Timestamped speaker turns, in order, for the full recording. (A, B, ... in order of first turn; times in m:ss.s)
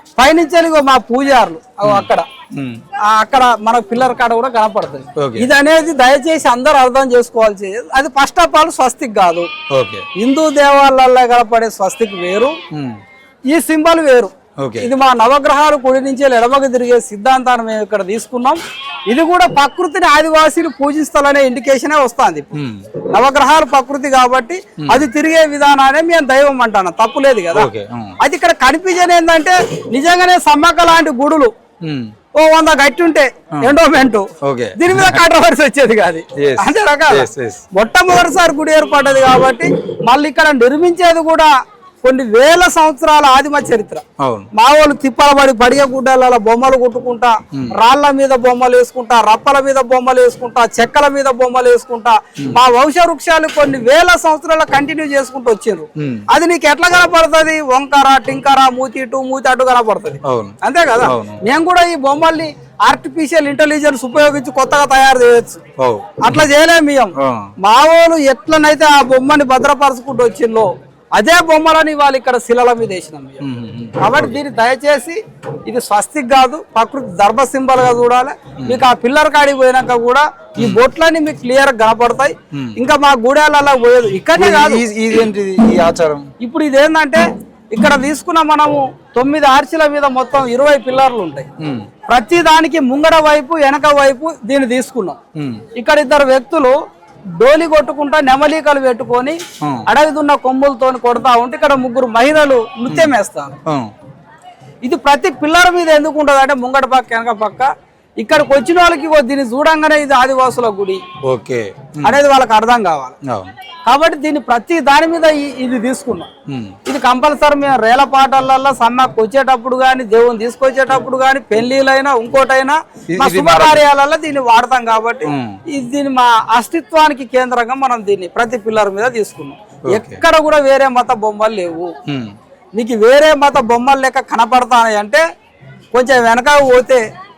0:00.2-0:02.2 A
0:01.8-0:02.8 B
0:03.1-0:09.5 A
0:05.2-0:05.5 B
0:09.7-0:10.0 B
0:10.2-0:12.6 A
0:12.7-0:13.0 B
0:13.5-0:22.6 A
0:14.6-0:14.9 B
0:22.5-0:22.8 B
0:23.1-0:27.7 A
0:27.5-0:28.2 B
0:28.2-0:31.5 A
0:31.8-0:32.1 B
0:32.4-0:41.5 A
0:34.4-0:35.2 B
0:36.4-0:37.6 B
0:42.0-0:44.0 A
0:44.2-0:44.5 B
0:44.5-1:05.6 A
0:56.0-0:56.2 B
1:00.2-1:01.4 B
1:05.8-1:06.2 B
1:06.2-1:13.4 A
1:07.2-1:07.5 B
1:13.4-1:14.4 B
1:14.0-1:24.8 A
1:24.3-1:26.2 B
1:26.4-1:31.5 A
1:31.6-1:31.9 B
1:32.1-1:35.2 A
1:35.3-1:35.6 B
1:35.7-1:36.8 A
1:37.4-1:43.6 A
1:42.9-1:43.1 B
1:44.8-1:47.7 A
1:48.2-1:51.0 A
1:51.2-1:52.2 B
1:52.0-1:53.2 A
1:53.3-1:53.5 B
1:53.9-1:56.3 A
1:56.5-1:56.7 B
1:56.8-2:11.9 A
2:03.1-2:03.8 B
2:05.2-2:05.6 B
2:09.9-2:10.2 B
2:12.1-2:12.3 B
2:12.7-2:15.2 A
2:15.9-2:17.0 A